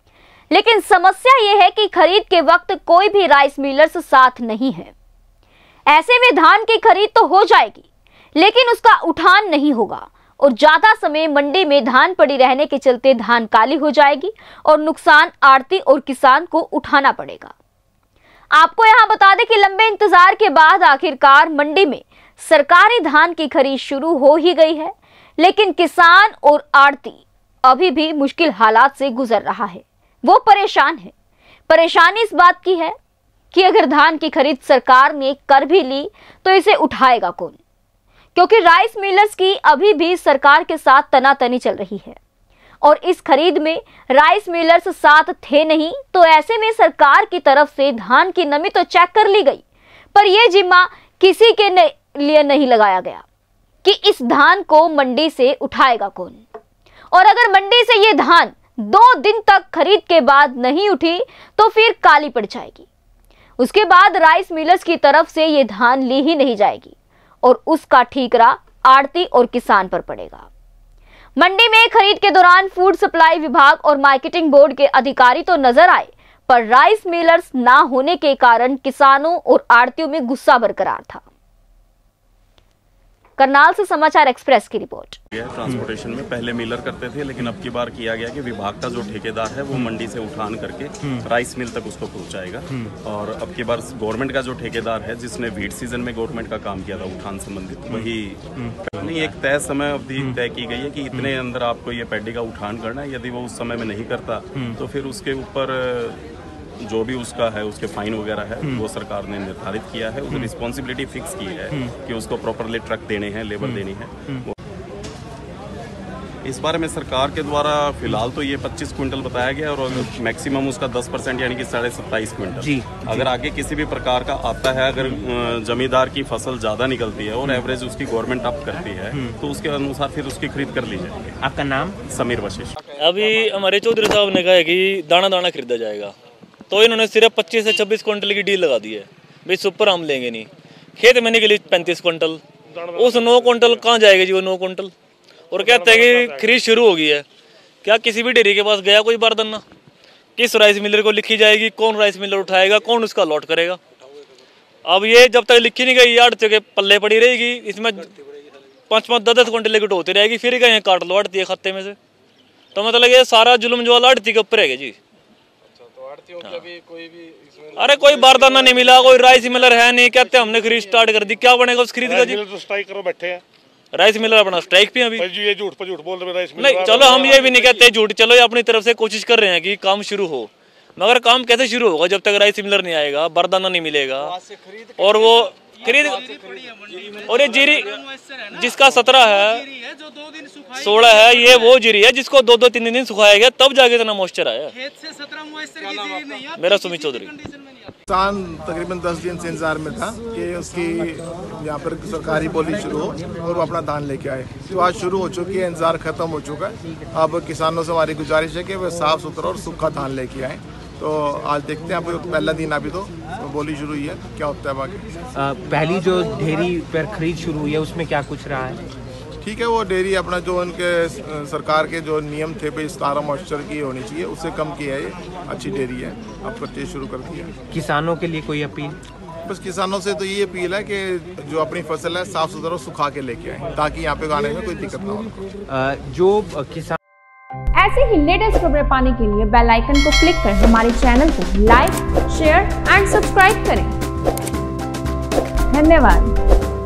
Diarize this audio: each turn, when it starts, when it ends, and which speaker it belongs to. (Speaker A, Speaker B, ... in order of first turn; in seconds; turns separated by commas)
Speaker A: 0.5-4.9, Speaker A: 5.9-17.5, Speaker A: 18.5-31.1, Speaker A: 31.7-32.9, Speaker A: 33.5-37.6, Speaker A: 38.3-42.2, Speaker A: 42.8-49.6, Speaker A: 50.1-53.2, Speaker A: 53.8-56.4, Speaker A: 57.1-62.9, Speaker A: 63.6-70.5, Speaker A: 71.4-81.2, Speaker A: 83.4-85.2, Speaker B: 85.3-106.2, Speaker B: 106.8-114.5, Speaker B: 116.4-131.4, Speaker C: 122.6-123.1, Speaker C: 131.4-131.9, Speaker B: 132.1-132.8, Speaker D: 133.0-136.1, Speaker D: 136.7-142.4, Speaker E: 142.7-143.8, Speaker D: 142.9-144.9, Speaker D: 145.5-147.2, Speaker E: 145.5-146.5, Speaker D: 147.8-149.6, Speaker D: 150.4-153.8, Speaker D: 154.8-158.1, Speaker D: 158.9-161.9, Speaker D: 162.7-164.9, Speaker D: 167.8-172.4, Speaker E: 172.0-173.4, Speaker D: 173.9-175.2, Speaker E: 175.2-177.6, Speaker D: 176.6-184.4, Speaker D: 185.0-186.4, Speaker D: 187.2-189.7, Speaker D: 190.8-194.7, Speaker D: 196.6-197.3, Speaker F: 198.1-215.0, Speaker C: 215.3-218.8, Speaker F: 219.4-227.5, Speaker C: 227.7-229.0, Speaker F: 229.5-235.5, Speaker C: 235.7-237.0, Speaker G: 237.7-244.0, Speaker G: 245.7-246.3